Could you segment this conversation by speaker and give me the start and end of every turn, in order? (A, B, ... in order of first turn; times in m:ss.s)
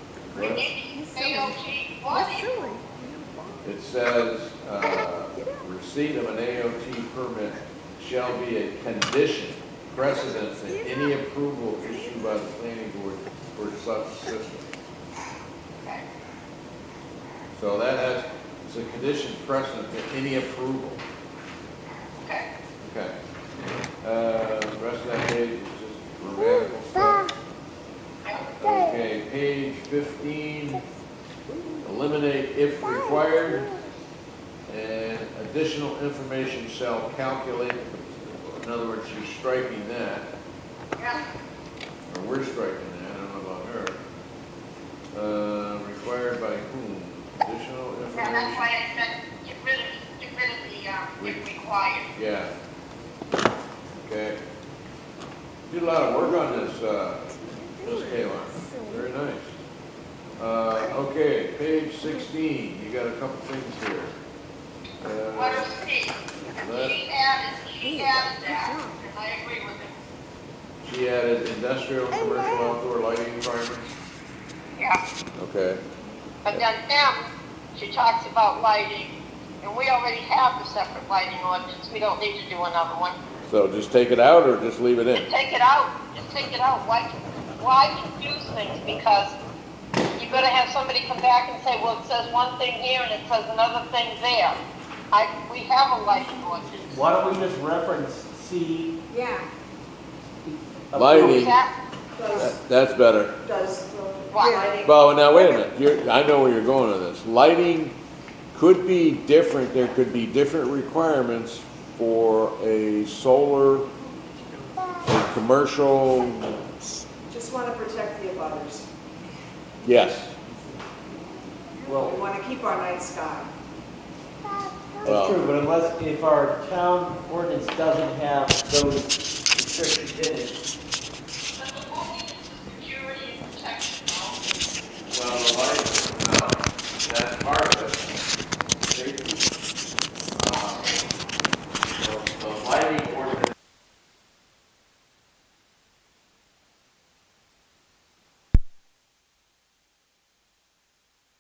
0:00.3-0:00.6 A
0:00.3-0:03.7 B
0:00.5-0:02.8 C
0:03.6-0:14.7 A
0:04.8-0:05.6 B
0:10.6-0:11.2 B
0:11.8-0:12.3 B
0:17.5-0:21.0 A
0:22.8-0:23.1 A
0:24.0-0:27.3 A
0:28.2-0:28.5 C
0:28.6-0:30.8 A
0:31.8-0:33.7 A
0:32.8-0:33.8 B
0:34.7-0:40.3 A
0:41.0-0:41.3 C
0:42.1-0:44.0 A
0:45.1-0:48.6 A
0:48.1-0:52.1 C
0:52.1-0:52.5 A
0:54.0-0:54.4 A
0:55.7-0:57.3 A
0:57.4-0:59.1 B
0:57.8-0:59.6 A
1:00.4-1:04.2 A
1:05.0-1:05.7 A
1:05.3-1:09.9 C
1:06.5-1:07.0 A
1:07.8-1:09.0 B
1:10.8-1:13.9 A
1:12.1-1:12.8 B
1:15.4-1:15.8 A
1:16.4-1:23.2 C
1:23.5-1:25.3 A
1:25.2-1:29.4 C
1:30.1-1:34.6 C
1:35.1-1:37.0 C
1:36.9-1:38.9 D
1:39.1-1:39.5 B
1:40.4-1:41.5 D
1:40.9-1:41.6 A
1:41.2-1:41.7 C
1:42.1-1:42.5 E
1:42.2-1:42.5 B
1:42.3-1:43.4 A
1:43.4-1:45.5 E
1:44.3-1:44.6 C
1:44.4-1:44.7 B
1:44.8-1:48.0 A
1:48.5-1:53.9 A
1:55.0-1:56.6 A
1:57.3-1:58.9 E
1:59.8-2:00.3 A
2:01.8-2:02.2 D
2:02.0-2:03.5 E
2:05.0-2:10.6 D
2:05.0-2:05.4 A
2:11.6-2:14.4 C
2:15.1-2:18.1 A
2:18.8-2:19.4 A
2:20.3-2:20.8 A
2:20.4-2:21.1 C
2:21.9-2:23.5 A